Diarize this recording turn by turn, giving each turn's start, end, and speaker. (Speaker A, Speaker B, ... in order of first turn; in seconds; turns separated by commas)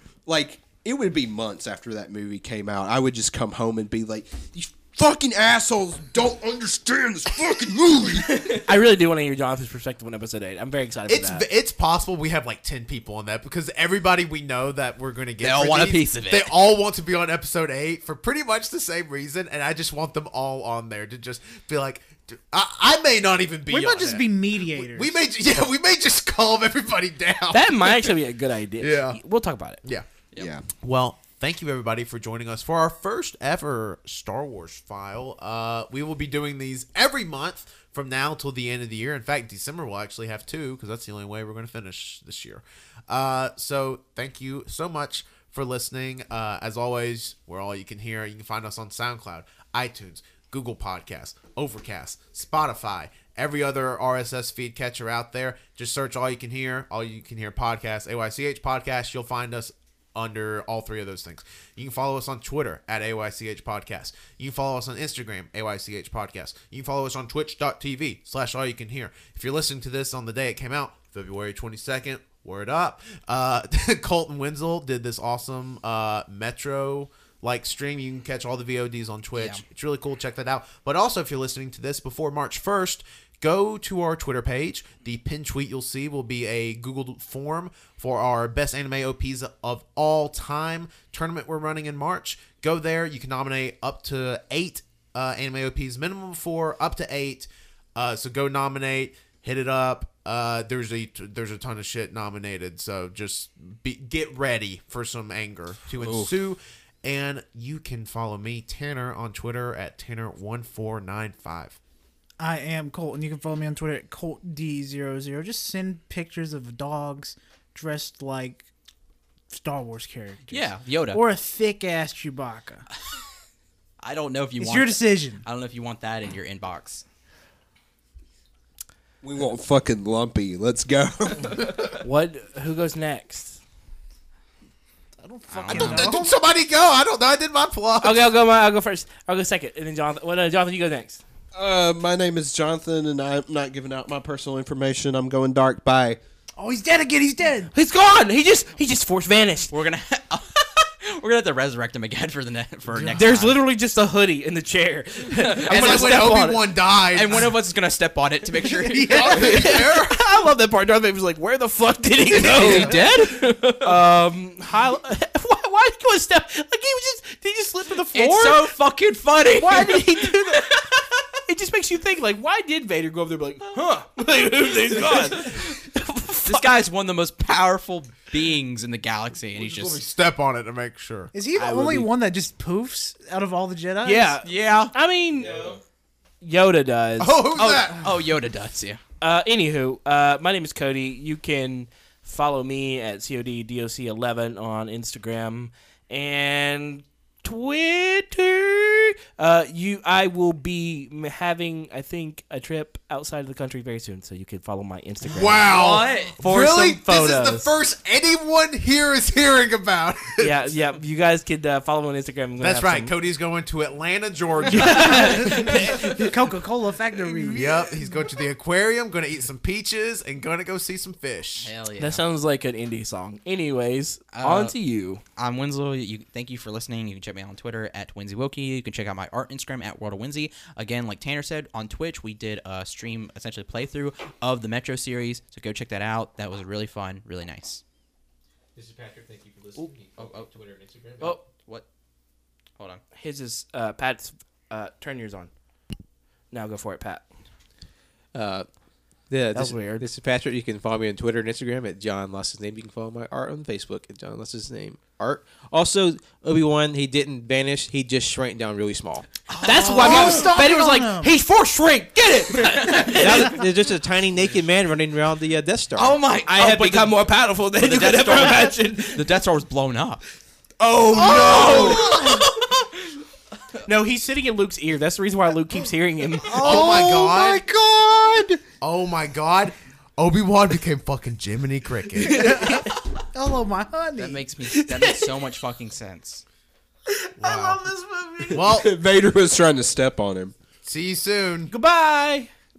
Speaker A: 0.3-8.7, Speaker B: 8.5-11.5, Speaker C: 11.1-28.1, Speaker D: 15.4-16.5, Speaker E: 23.7-25.2, Speaker B: 27.5-29.8, Speaker C: 28.8-29.2, Speaker A: 30.4-30.7, Speaker C: 30.8-111.8, Speaker D: 79.4-79.6, Speaker D: 106.0-106.3, Speaker E: 112.4-118.7, Speaker E: 119.5-122.8, Speaker D: 120.5-121.2, Speaker D: 124.0-127.0, Speaker E: 124.6-125.4, Speaker A: 129.2-132.0, Speaker B: 132.0-133.6, Speaker E: 135.2-136.3, Speaker D: 135.5-136.1, Speaker C: 135.7-138.3, Speaker B: 135.7-136.0, Speaker B: 138.0-141.2, Speaker A: 141.5-146.2, Speaker E: 146.6-147.7, Speaker B: 147.7-149.7, Speaker D: 149.7-153.6, Speaker C: 153.0-153.2, Speaker B: 153.1-156.6, Speaker D: 155.6-156.3, Speaker C: 155.7-157.5, Speaker D: 157.1-159.6, Speaker C: 158.8-160.2, Speaker B: 159.1-168.7, Speaker D: 162.4-164.0, Speaker D: 168.1-170.8, Speaker B: 169.5-170.8, Speaker B: 171.5-176.8, Speaker D: 174.8-175.8, Speaker D: 176.4-180.0, Speaker C: 179.5-181.3, Speaker E: 181.3-184.4, Speaker B: 181.6-182.1, Speaker B: 184.0-185.8, Speaker D: 184.4-184.9, Speaker F: 185.4-185.8, Speaker B: 186.4-187.4, Speaker C: 187.2-188.1, Speaker D: 187.6-189.0, Speaker B: 189.2-205.7, Speaker C: 205.2-210.7, Speaker D: 205.7-206.3, Speaker B: 206.4-207.7, Speaker B: 210.4-213.2, Speaker C: 212.6-215.9, Speaker B: 214.7-216.2, Speaker E: 214.8-218.0, Speaker C: 217.5-221.7, Speaker D: 221.6-222.2, Speaker B: 222.0-225.2, Speaker D: 224.3-224.7, Speaker D: 225.4-237.8, Speaker F: 238.8-241.4, Speaker D: 240.2-240.5, Speaker D: 241.4-241.8, Speaker B: 243.2-245.5, Speaker B: 246.5-247.2, Speaker F: 248.3-248.7, Speaker F: 249.3-259.3, Speaker B: 249.5-250.1, Speaker D: 259.5-260.6, Speaker B: 259.6-263.6, Speaker E: 259.7-261.3, Speaker D: 262.5-263.6, Speaker F: 263.1-267.1, Speaker D: 266.0-267.1, Speaker B: 266.5-269.3, Speaker D: 267.8-270.2, Speaker A: 270.8-272.1, Speaker B: 271.2-272.4, Speaker D: 271.3-272.9, Speaker B: 273.9-276.8, Speaker A: 276.5-278.6, Speaker C: 276.6-277.6, Speaker E: 276.6-276.9, Speaker C: 278.8-282.6, Speaker B: 282.2-283.0, Speaker E: 282.3-282.8, Speaker E: 283.3-284.4, Speaker D: 284.2-286.4, Speaker B: 284.7-285.5, Speaker B: 287.1-288.7, Speaker C: 287.4-287.8, Speaker C: 288.5-288.9, Speaker A: 288.6-290.5, Speaker C: 290.8-291.7, Speaker B: 291.7-292.5